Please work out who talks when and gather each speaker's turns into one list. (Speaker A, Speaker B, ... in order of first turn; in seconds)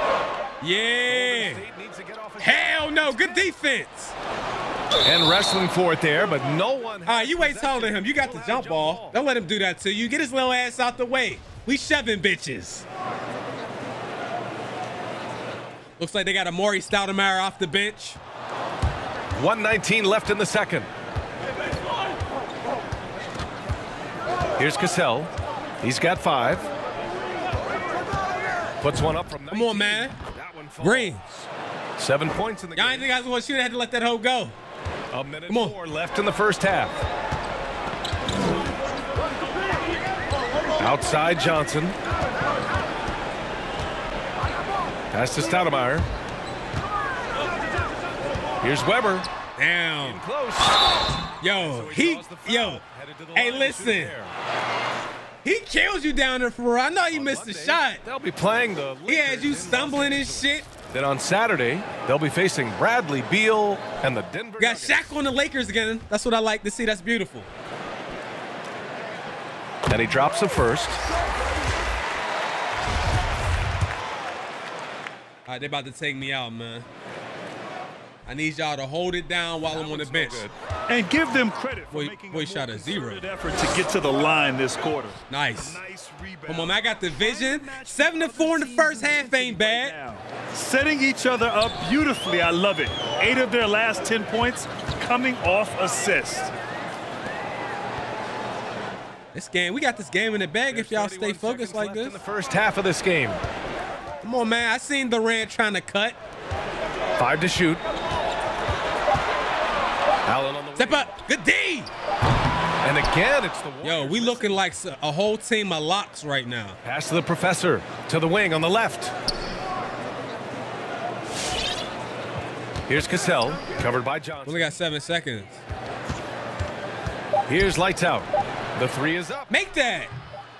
Speaker A: 0.6-1.6, 2.4-4.1, 7.0-12.8, 16.0-18.2, 29.5-30.1, 30.8-31.2, 32.8-34.5, 35.5-35.8, 49.6-50.2, 51.4-52.8, 53.3-54.1, 55.4-58.0, 59.1-60.7, 64.6-67.5, 75.5-76.8, 78.3-80.4, 81.9-83.2, 85.3-85.8, 86.5-89.9, 99.3-102.2, 104.2-106.2, 110.8-111.9, 113.8-116.8, 124.5-125.6, 129.5-130.1
Speaker B: 1.1-3.5, 5.0-9.2, 19.4-20.9, 24.6-26.7, 28.8-33.1, 35.1-37.0, 40.8-42.0, 45.1-46.1, 48.6-49.3, 50.0-50.8, 51.5-54.3, 57.1-65.1, 69.9-71.0, 79.7-80.5, 100.7-103.4, 107.2-107.8, 110.2-111.2, 112.8-114.6, 116.8-119.1, 122.9-124.8, 127.5-129.5
Speaker C: 80.9-96.5